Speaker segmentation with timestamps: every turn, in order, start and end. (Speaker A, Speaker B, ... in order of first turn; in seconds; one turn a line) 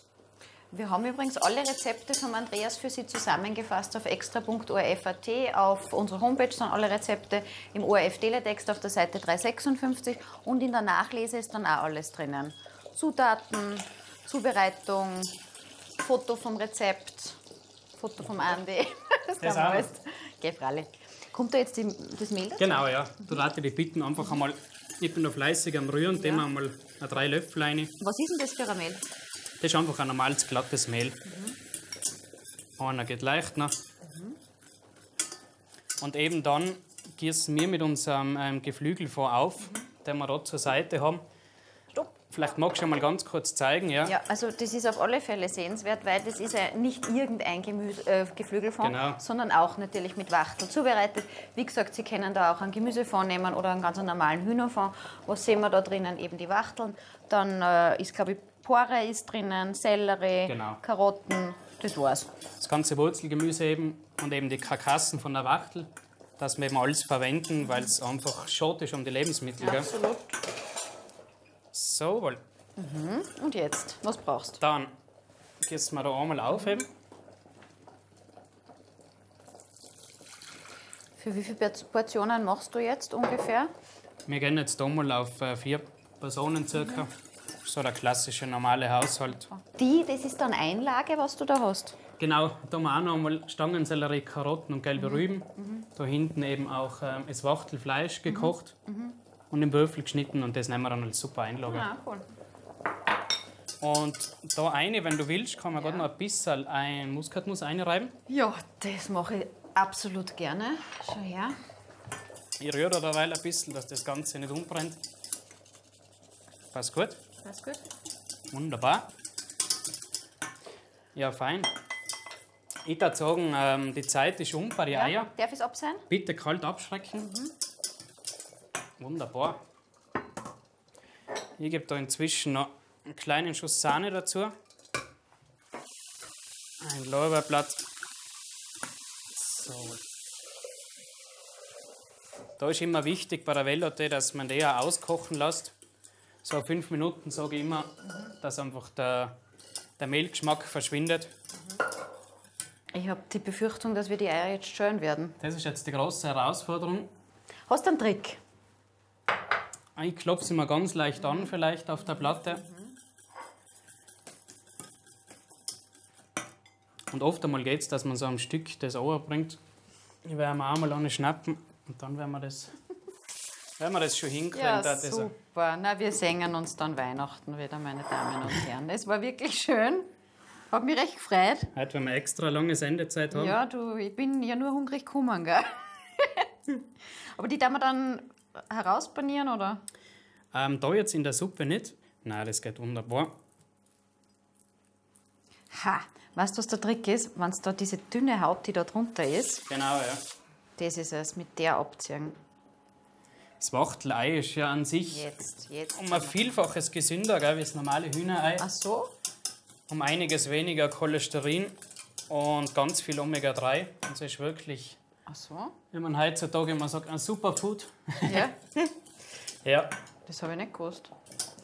Speaker A: 0.7-15.4
Speaker A: 16.0-17.4
Speaker A: 18.0-23.4
Speaker B: 19.4-19.9
Speaker B: 22.6-28.0
Speaker A: 26.1-26.5
Speaker A: 28.0-29.0
Speaker B: 29.6-31.2
Speaker A: 31.3-31.6
Speaker B: 32.8-33.7
Speaker A: 34.0-34.4
Speaker B: 36.0-41.2
Speaker B: 42.1-44.2
Speaker A: 44.0-62.3
Speaker B: 48.8-49.2
Speaker B: 60.5-60.8
Speaker B: 62.6-69.9
Speaker A: 69.6-70.4
Speaker B: 71.7-72.4
Speaker A: 72.8-74.6
Speaker B: 74.6-74.9
Speaker B: 75.6-76.9
Speaker A: 81.2-83.7
Speaker B: 84.3-87.1
Speaker A: 86.8-87.1
Speaker B: 87.6-89.5
Speaker A: 89.4-92.0
Speaker B: 92.2-98.8
Speaker A: 95.0-95.8
Speaker A: 98.3-99.2
Speaker B: 99.5-101.9
Speaker A: 101.7-102.3
Speaker B: 103.8-108.1
Speaker A: 105.8-106.1
Speaker A: 108.3-111.6
Speaker B: 112.6-115.0
Speaker B: 116.7-117.2
Speaker A: 117.5-117.8
Speaker B: 118.5-119.1
Speaker B: 121.2-121.7
Speaker B: 122.8-125.3
Speaker A: 124.9-126.0
Speaker B: 126.1-127.3
Speaker A: 127.2-127.5
Speaker B: 129.0-129.6
Speaker B: 131.6-134.5
Speaker B: 136.8-137.8
Speaker B: 139.3-140.0
Speaker B: 142.6-145.7
Speaker B: 146.4-149.3
Speaker B: 150.0-151.3
Speaker A: 152.9-155.4
Speaker B: 155.4-157.1
Speaker A: 157.7-158.4
Speaker B: 160.0-162.6
Speaker A: 161.2-162.9
Speaker B: 167.1-169.6
Speaker B: 170.2-172.8
Speaker B: 173.8-175.3
Speaker A: 174.5-180.1
Speaker A: 180.7-181.7
Speaker B: 181.8-183.6
Speaker A: 183.3-186.8
Speaker A: 187.3-189.8
Speaker B: 190.5-193.3
Speaker A: 195.7-199.6
Speaker B: 199.7-200.2
Speaker A: 200.8-202.4
Speaker B: 203.6-205.3
Speaker A: 205.1-206.6
Speaker B: 205.9-208.7
Speaker A: 208.6-209.1
Speaker B: 209.9-211.8
Speaker B: 212.3-215.0
Speaker A: 215.3-215.8
Speaker B: 215.9-218.5
Speaker A: 218.3-218.5
Speaker B: 219.6-219.9
Speaker A: 220.3-221.1